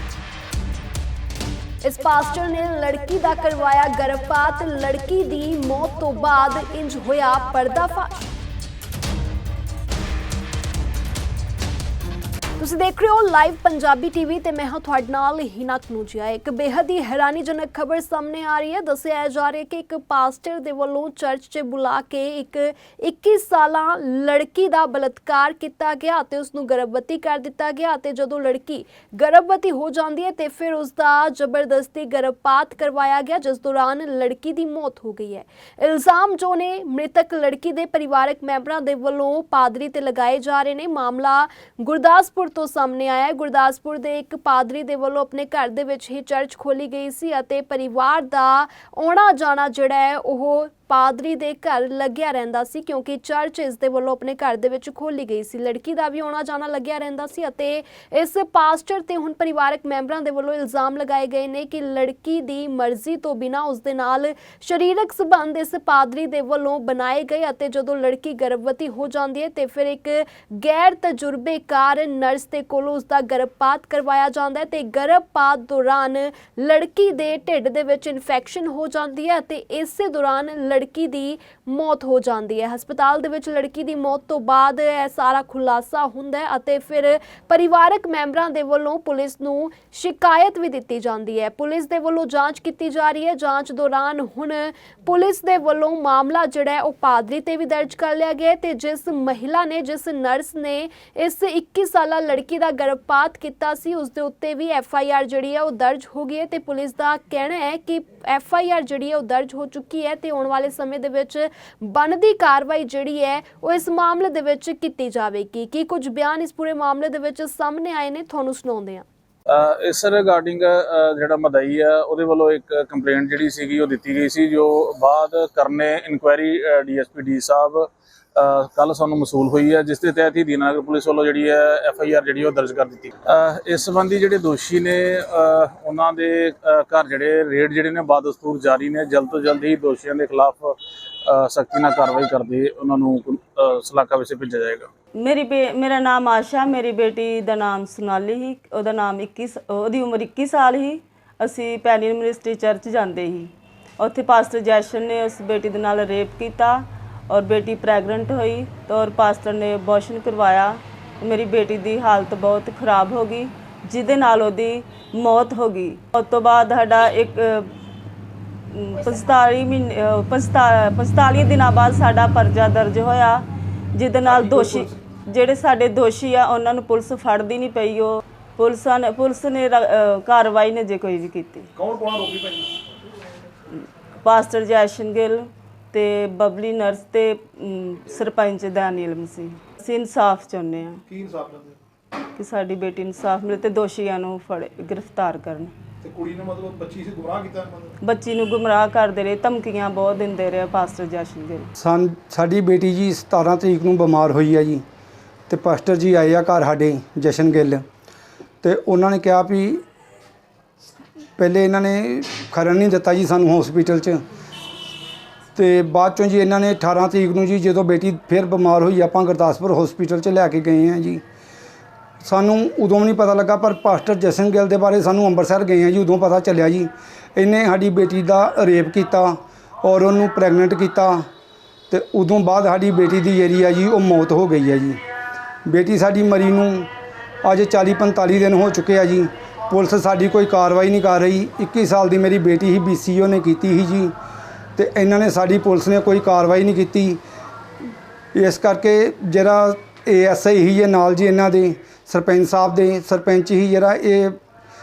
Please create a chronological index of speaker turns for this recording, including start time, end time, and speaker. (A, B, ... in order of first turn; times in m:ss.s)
0:01.8-0:08.2 A
0:12.6-1:59.0 A
1:59.5-2:20.7 B
2:21.3-2:24.9 B
2:25.2-2:47.7 C
2:48.7-3:01.7 C
2:54.2-2:54.9 D
3:01.8-3:02.7 D
3:04.2-3:11.0 C
3:11.1-3:11.8 D
3:12.4-3:15.7 C
3:16.0-3:17.9 D
3:18.0-3:21.7 C
3:21.8-3:24.8 E
3:25.5-3:27.8 E
3:28.6-3:29.8 E
3:31.4-3:34.2 E
3:35.5-3:41.2 E
3:42.2-3:51.2 E
3:51.9-3:55.0 E
3:55.6-3:56.9 E
3:57.4-4:04.1 E
4:04.8-4:07.2 E
4:08.3-4:14.4 E